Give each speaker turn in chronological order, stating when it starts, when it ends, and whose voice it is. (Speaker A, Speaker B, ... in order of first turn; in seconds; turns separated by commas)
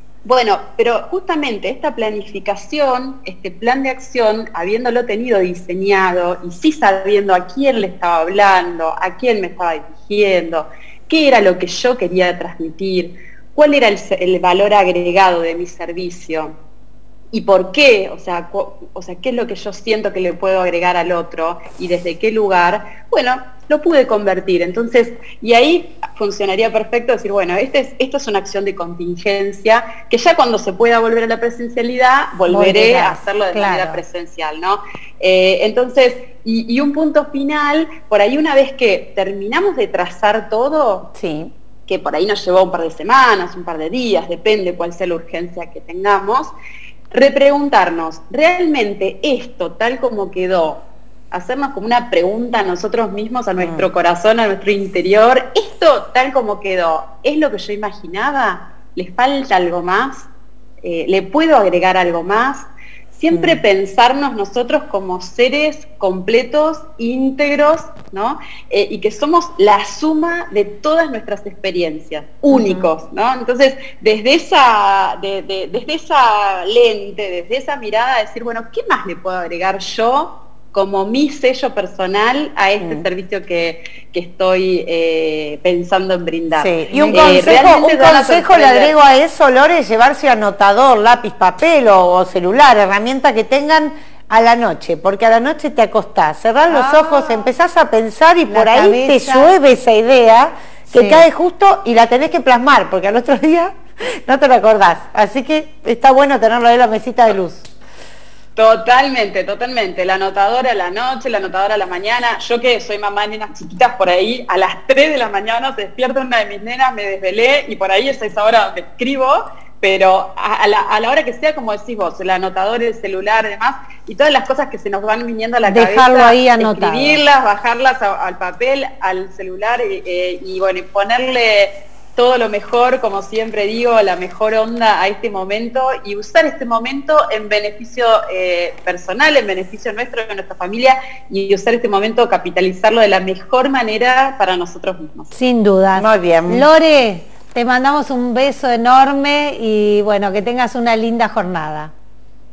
Speaker A: 0.2-16.5, Speaker A: 17.3-41.1, Speaker B: 32.5-34.0, Speaker C: 41.1-41.5, Speaker A: 41.9-46.5, Speaker A: 47.1-60.3, Speaker C: 53.6-53.9, Speaker A: 60.8-88.9, Speaker C: 63.3-63.6, Speaker C: 72.5-72.8, Speaker C: 82.8-83.1, Speaker C: 86.5-107.6, Speaker B: 86.9-87.7, Speaker B: 96.7-97.5, Speaker B: 98.5-99.5, Speaker B: 100.9-101.2, Speaker A: 108.5-145.3, Speaker B: 125.6-127.2, Speaker B: 145.3-151.9, Speaker C: 145.9-146.7